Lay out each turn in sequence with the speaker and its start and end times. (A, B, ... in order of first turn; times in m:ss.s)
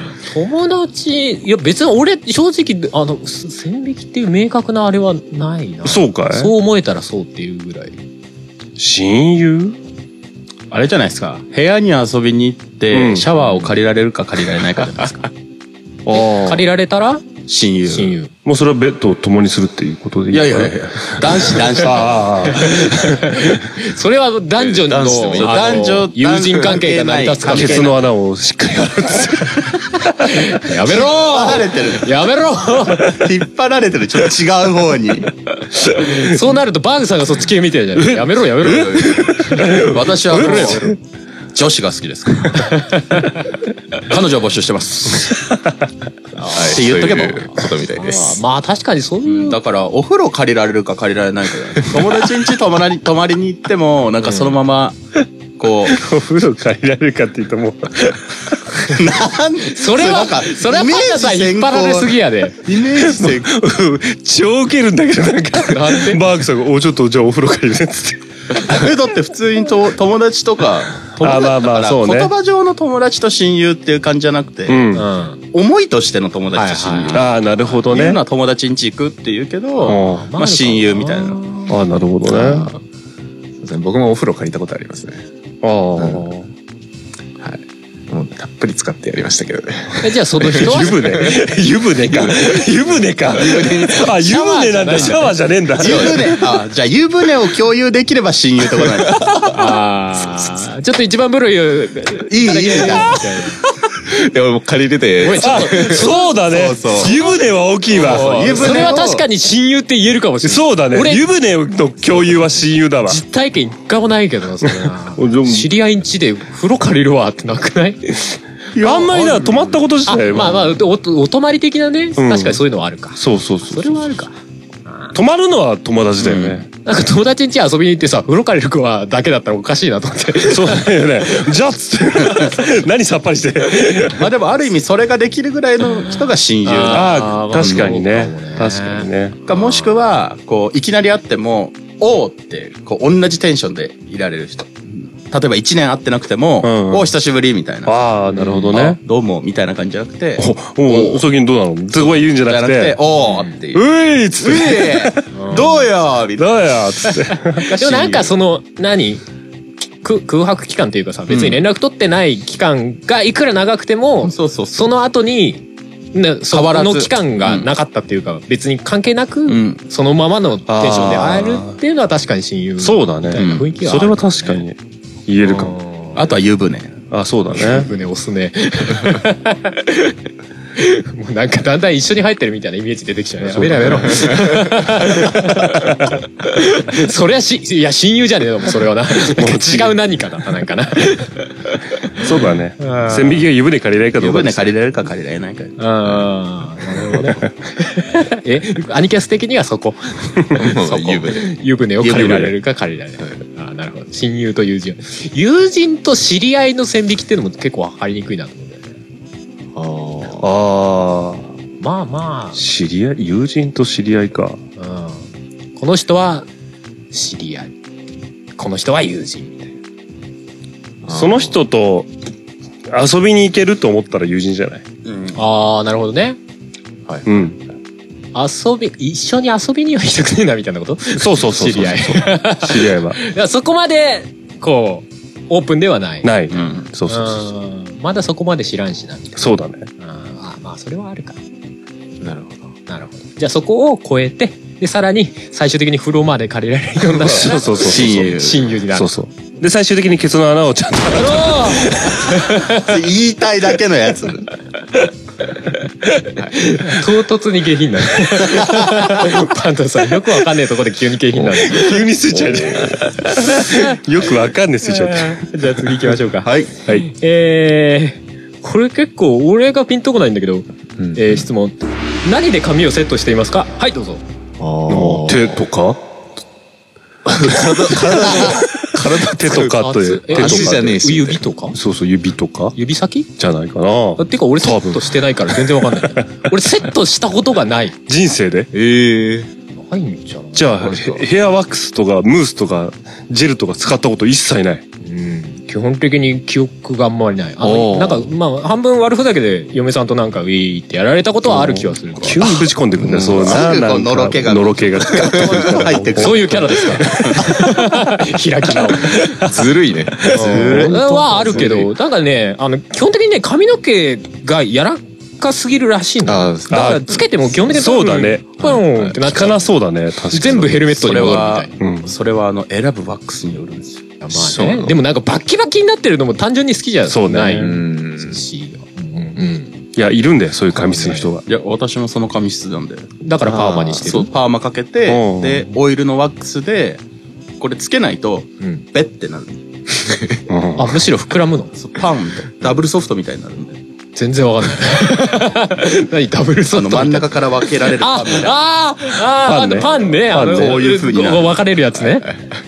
0:00.2-0:08.0 A
0:05.8-0:06.5 B
0:08.8-0:09.8 B
0:10.7-0:15.3 C
0:12.9-0:13.3 B
0:16.1-0:16.7 B
0:16.1-0:17.2 A
0:17.5-0:18.2 C
0:17.9-0:18.3 A
0:18.4-0:23.5 B
0:20.3-0:22.5 C
0:22.5-0:28.0 A
0:24.6-0:26.0 D
0:25.3-0:28.0 C
0:27.5-0:30.5 B
0:30.2-0:33.2 A
0:30.9-0:32.1 C
0:33.0-0:35.3 C
0:35.8-0:36.2 B
0:36.0-0:40.8 A
0:38.0-0:41.0 B
0:38.7-0:39.1 C
0:39.8-0:41.0 C
0:41.5-0:42.8 C
0:43.9-0:45.4 C
0:46.4-0:48.4 D
0:46.6-0:47.5 C
0:48.0-0:49.6 A
0:49.2-0:56.0 C
0:55.9-0:59.0 B
0:58.9-1:03.5 C
0:59.7-1:02.6 A
1:03.0-1:08.8 B
1:05.7-1:06.2 A
1:08.7-1:15.0 C
1:11.2-1:12.3 B
1:14.7-1:15.1 B
1:14.9-1:15.4 A
1:15.5-1:17.3 C
1:16.5-1:17.2 A
1:17.1-1:18.2 B
1:17.9-1:21.5 C
1:19.8-1:21.8 A
1:19.9-1:20.3 B
1:21.7-1:22.7 B
1:22.3-1:22.8 D
1:23.6-1:25.2 D
1:25.6-1:26.5 B
1:26.0-1:26.3 D
1:27.4-1:31.4 D
1:30.0-1:31.3 A
1:30.4-1:36.4 B
1:32.1-1:32.6 D
1:33.3-1:34.1 D
1:34.2-1:35.4 A
1:35.8-1:39.3 C
1:39.5-1:43.6 A
1:42.3-1:43.2 C
1:44.1-1:46.0 D
1:45.2-1:46.4 A
1:45.4-1:49.0 B
1:46.5-1:47.1 C
1:47.0-1:47.3 A
1:47.9-1:49.2 C
1:47.9-1:51.2 A
1:50.4-1:53.2 B
1:53.1-1:58.4 A
1:54.6-1:55.7 B
1:58.7-1:59.8 C
1:58.8-2:00.8 B
2:00.1-2:04.3 A
2:02.2-2:02.6 B
2:03.2-2:04.3 B
2:04.9-2:05.2 A
2:05.1-2:06.7 B
2:06.2-2:06.6 C
2:06.8-2:10.9 A
2:10.5-2:14.3 B
2:14.1-2:17.9 C
2:16.6-2:19.7 A
2:16.9-2:19.4 B
2:19.5-2:28.0 C
2:26.6-2:27.1 B
2:27.9-2:29.0 B
2:28.3-2:28.9 A
2:28.7-2:31.2 C
2:30.4-2:33.0 B
2:32.0-2:36.9 C
2:33.2-2:33.5 A
2:33.7-2:35.3 B
2:35.3-2:35.9 A
2:36.4-2:37.7 B
2:37.6-2:38.3 C
2:37.7-2:39.2 A
2:40.0-2:54.6 A
2:41.3-2:41.6 C
2:44.2-2:45.0 C
2:46.5-2:47.7 C
2:49.5-2:49.8 C
2:50.7-2:51.8 B
2:52.8-2:55.8 B
2:53.3-2:53.7 C
2:55.4-2:56.2 A
2:56.2-2:57.0 C
2:57.1-2:57.9 B
2:57.5-3:00.2 A
3:00.8-3:11.5 A
3:03.4-3:06.1 B
3:09.2-3:10.0 B
3:12.2-3:14.7 B
3:12.8-3:13.5 A
3:14.2-3:15.8 C
3:15.8-3:28.9 A
3:17.1-3:17.4 B
3:20.5-3:21.6 D
3:22.0-3:22.5 C
3:22.1-3:22.5 B
3:29.7-3:30.5 D
3:30.4-3:31.5 B
3:31.8-3:32.6 A
3:32.6-3:34.6 B
3:34.8-3:36.5 A
3:37.1-3:37.7 A
3:38.6-3:39.7 A
3:41.0-3:41.6 D
3:41.1-3:42.1 B
3:42.9-3:44.8 B
3:45.1-3:45.3 C
3:45.3-3:46.4 A
3:47.1-3:47.5 D
3:47.2-3:47.6 B
3:48.3-3:56.3 A
3:51.2-3:53.2 B
3:56.2-3:57.5 B
3:56.5-3:56.9 C
3:57.1-3:59.4 A
3:59.4-3:59.9 B
4:00.0-4:01.4 A
4:02.2-4:02.8 D
4:02.9-4:09.1 A
4:07.1-4:12.5 B
4:07.8-4:08.7 C
4:11.1-4:12.9 A
4:12.8-4:14.5 C
4:16.6-4:22.1 A
4:21.4-4:25.5 B
4:22.4-4:23.0 D
4:23.4-4:24.0 A
4:24.8-4:34.2 A
4:26.4-4:26.7 C
4:31.0-4:31.4 D
4:34.6-4:35.6 D
4:34.9-4:36.1 B
4:37.3-4:39.7 D
4:37.5-4:41.0 B
4:39.5-4:41.8 A
4:40.3-4:41.5 D
4:41.7-4:42.8 B
4:42.8-4:43.3 A
4:43.4-4:46.3 B
4:44.2-4:48.0 A
4:48.1-4:48.7 B
4:48.7-4:49.5 D
4:49.7-4:51.2 A
4:50.5-4:54.8 B
4:50.9-4:51.2 D
4:55.0-5:02.5 A
4:57.6-4:58.3 B
5:01.4-5:07.5 B
5:03.0-5:03.5 D
5:03.4-5:07.4 C
5:06.2-5:09.6 A
5:09.3-5:11.0 D
5:10.2-5:11.9 C
5:10.3-5:19.7 A
5:16.2-5:17.7 D
5:16.7-5:22.1 B
5:18.6-5:19.2 D
5:20.3-5:21.7 A
5:21.0-5:24.0 C
5:24.2-5:29.8 A
5:24.3-5:25.0 D
5:27.1-5:27.8 B
5:27.5-5:28.4 D
5:30.0-5:31.4 B
5:30.7-5:31.4 A
5:31.5-5:33.1 C
5:33.2-5:34.3 A
5:33.4-5:34.1 D
5:34.0-5:37.0 C
5:35.1-5:35.7 B
5:37.6-5:39.6 C
5:40.5-5:41.0 B
5:40.8-5:41.7 A
5:41.8-5:43.8 C
5:44.2-5:52.3 A
5:46.7-5:48.6 C
5:49.4-5:51.0 B
5:50.2-5:51.6 C
5:52.1-5:52.4 D